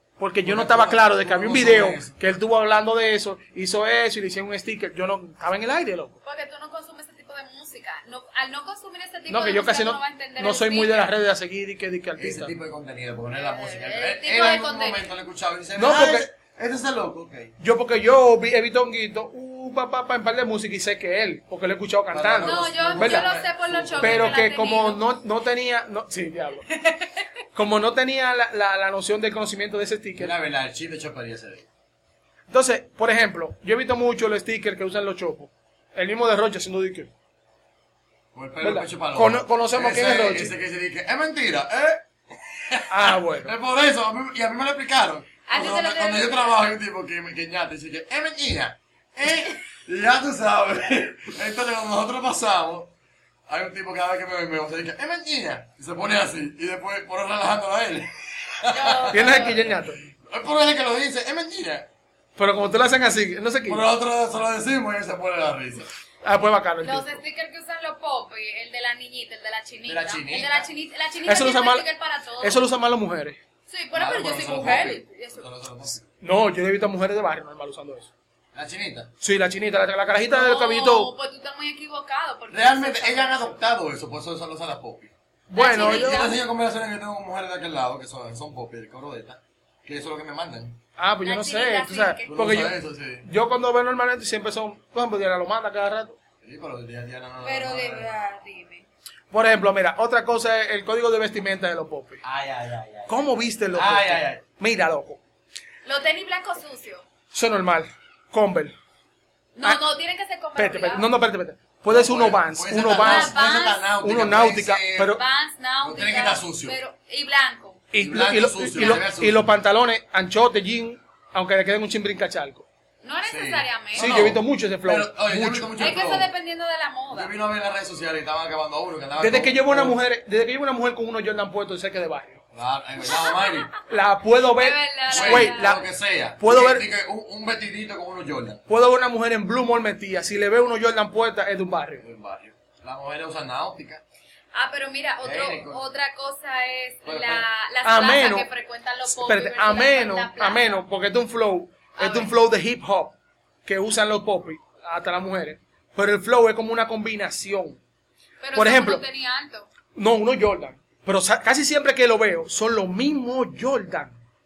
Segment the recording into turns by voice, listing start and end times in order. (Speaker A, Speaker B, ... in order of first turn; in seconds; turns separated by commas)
Speaker A: 0.2-6.2, Speaker B: 0.4-2.1, Speaker C: 6.2-11.1, Speaker A: 9.3-12.5, Speaker B: 12.2-17.5, Speaker C: 13.3-15.1, Speaker A: 15.8-16.3, Speaker A: 17.6-23.3, Speaker B: 22.1-24.4, Speaker C: 22.4-25.0, Speaker A: 24.0-26.7, Speaker A: 27.5-30.3, Speaker B: 30.2-31.7, Speaker A: 32.5-37.1, Speaker B: 38.3-52.9, Speaker A: 38.6-40.5, Speaker A: 42.9-43.5, Speaker C: 45.5-46.6, Speaker B: 53.5-61.9, Speaker C: 58.7-59.6, Speaker A: 59.1-60.0, Speaker A: 62.4-63.8, Speaker B: 63.6-65.9, Speaker A: 66.2-67.2, Speaker C: 66.8-72.6, Speaker B: 69.8-70.7, Speaker A: 71.2-71.8, Speaker A: 72.4-73.4, Speaker C: 73.7-75.5, Speaker B: 73.9-76.0, Speaker A: 76.2-78.1, Speaker B: 78.5-79.1, Speaker A: 79.2-81.1, Speaker C: 80.2-83.6, Speaker B: 82.5-85.1, Speaker A: 85.5-86.3, Speaker C: 85.5-86.3, Speaker B: 85.6-90.8, Speaker A: 91.0-96.2, Speaker C: 91.2-92.4, Speaker B: 92.3-93.2, Speaker B: 96.4-98.1, Speaker C: 97.4-98.9, Speaker A: 99.3-102.2, Speaker B: 102.2-104.4, Speaker A: 103.1-105.2, Speaker C: 105.8-107.0, Speaker A: 107.3-108.7, Speaker C: 109.5-111.1, Speaker A: 110.6-113.4, Speaker B: 111.9-115.2, Speaker C: 113.0-113.8, Speaker A: 114.0-115.2, Speaker C: 115.1-117.8, Speaker B: 115.8-116.8, Speaker A: 117.9-122.7, Speaker B: 118.0-119.5, Speaker C: 118.7-119.0, Speaker C: 123.0-124.2, Speaker B: 123.3-126.3, Speaker A: 123.9-125.7, Speaker C: 125.8-127.3, Speaker B: 127.1-130.0, Speaker A: 129.2-132.4, Speaker B: 132.5-133.7, Speaker C: 133.0-133.7, Speaker A: 133.8-135.8, Speaker C: 134.5-135.7, Speaker B: 135.1-138.6, Speaker A: 136.4-136.8, Speaker A: 138.7-142.0, Speaker B: 142.0-144.0, Speaker C: 144.5-150.8, Speaker B: 145.2-145.8, Speaker B: 147.0-147.4, Speaker A: 147.8-148.5, Speaker A: 149.1-153.1, Speaker C: 151.9-152.3, Speaker A: 153.7-157.8, Speaker C: 158.4-159.7, Speaker A: 158.5-159.0, Speaker A: 159.9-164.1